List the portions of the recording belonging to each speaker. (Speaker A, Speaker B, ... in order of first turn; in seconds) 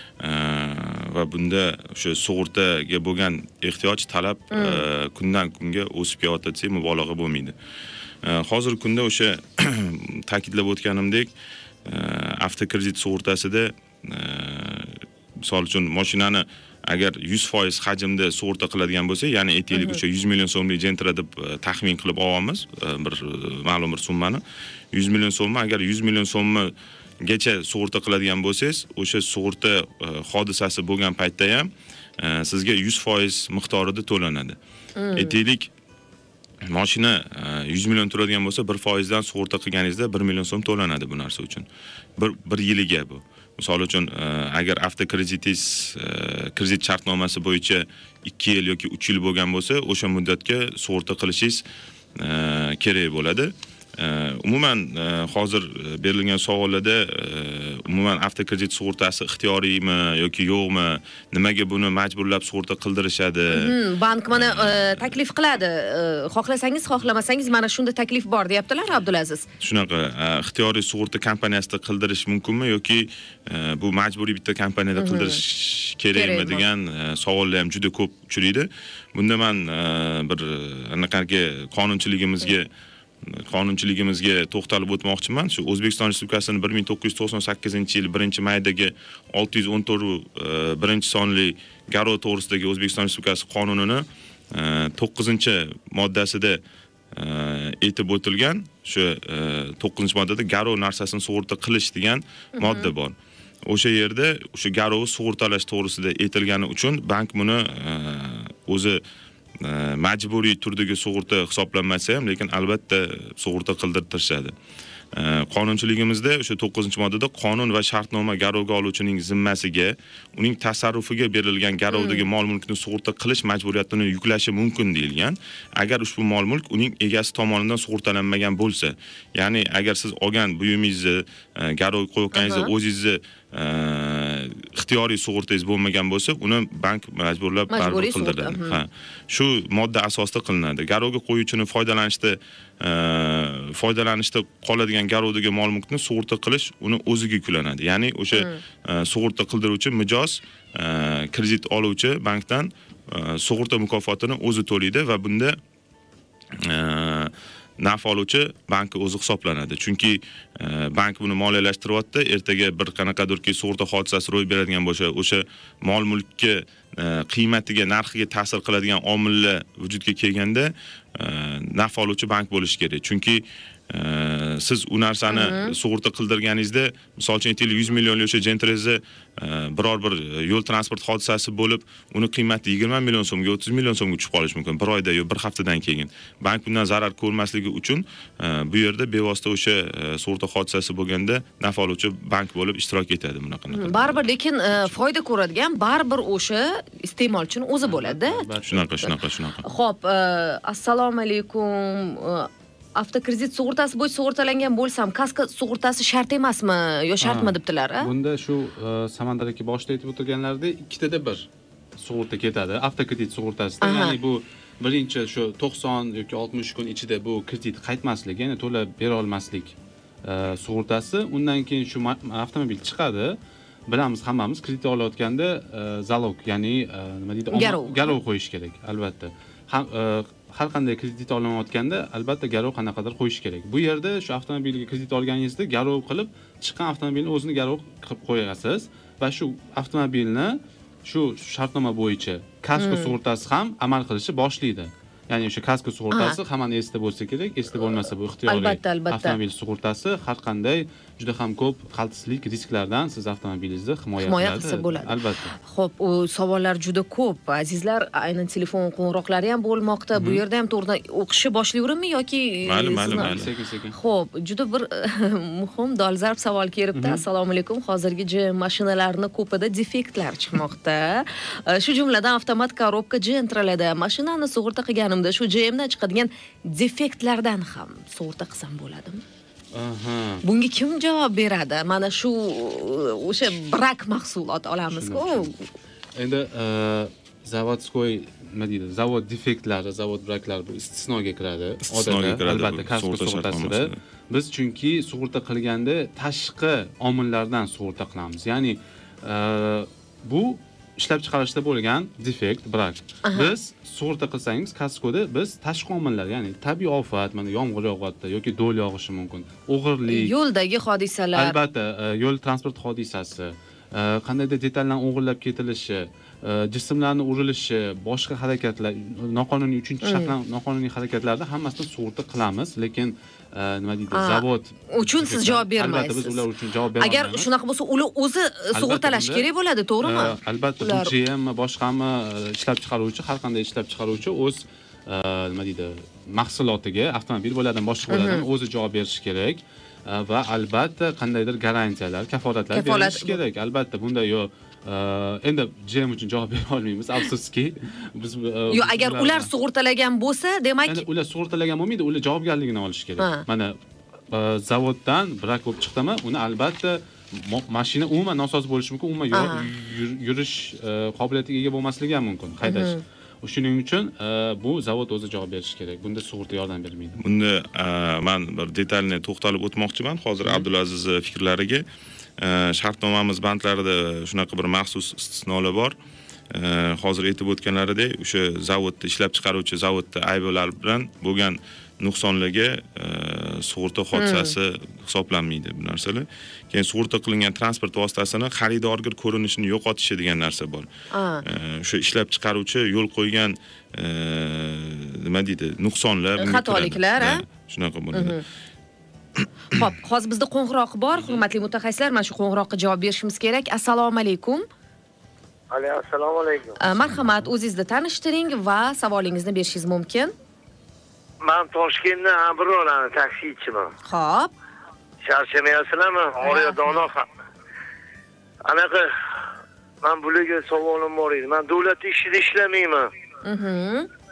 Speaker A: 0.2-7.5, 8.2-11.3, 11.8-34.6, 35.1-35.7, 36.6-41.6, 42.2-51.6, 52.1-63.8, 64.3-65.2, 69.6-82.7, 83.2-96.6, 97.1-103.1, 103.7-109.0, 109.6-114.5, 115.1-155.6, 156.6-194.2, 198.7-199.6, 262.6-263.5, 291.8-294.0, 367.2-371.8, 372.4-375.9, 376.5-390.9, 391.4-398.4
Speaker B: 4.5-4.8, 19.7-20.0, 35.0-35.3, 63.5-69.5, 75.0-75.4, 76.1-76.6, 102.6-102.9, 121.9-122.2, 132.3-132.7, 137.7-138.8, 148.3-148.6, 175.3-175.7, 193.7-198.4, 199.0-208.1, 213.8-214.2, 227.5-228.2, 242.8-243.2, 246.1-246.4, 248.5-249.4, 254.2-263.3, 263.9-279.2, 280.4-285.6, 303.2-303.5, 310.1-311.6, 320.0-320.3, 324.1-326.4, 327.0-331.1, 338.1-338.4, 342.7-343.4, 348.7-351.0, 353.2-353.4, 359.3-359.6, 362.6-363.0, 384.1-384.5, 391.1-391.4, 396.4-397.4, 398.1-398.4, 399.7-404.6, 406.8-410.3, 414.1-414.5, 416.4-417.0, 423.4-424.1
Speaker C: 197.8-198.9, 207.2-223.4, 223.9-255.5, 260.1-260.4, 263.1-264.0, 266.9-267.2, 279.7-280.4, 284.9-285.5, 286.1-310.3, 311.3-327.5, 328.7-329.5, 330.0-349.5, 350.9-353.8, 354.3-367.2, 407.0-407.5
Speaker D: 405.7-406.8, 411.4-413.9, 415.2-417.3, 418.6-419.1, 420.0-423.1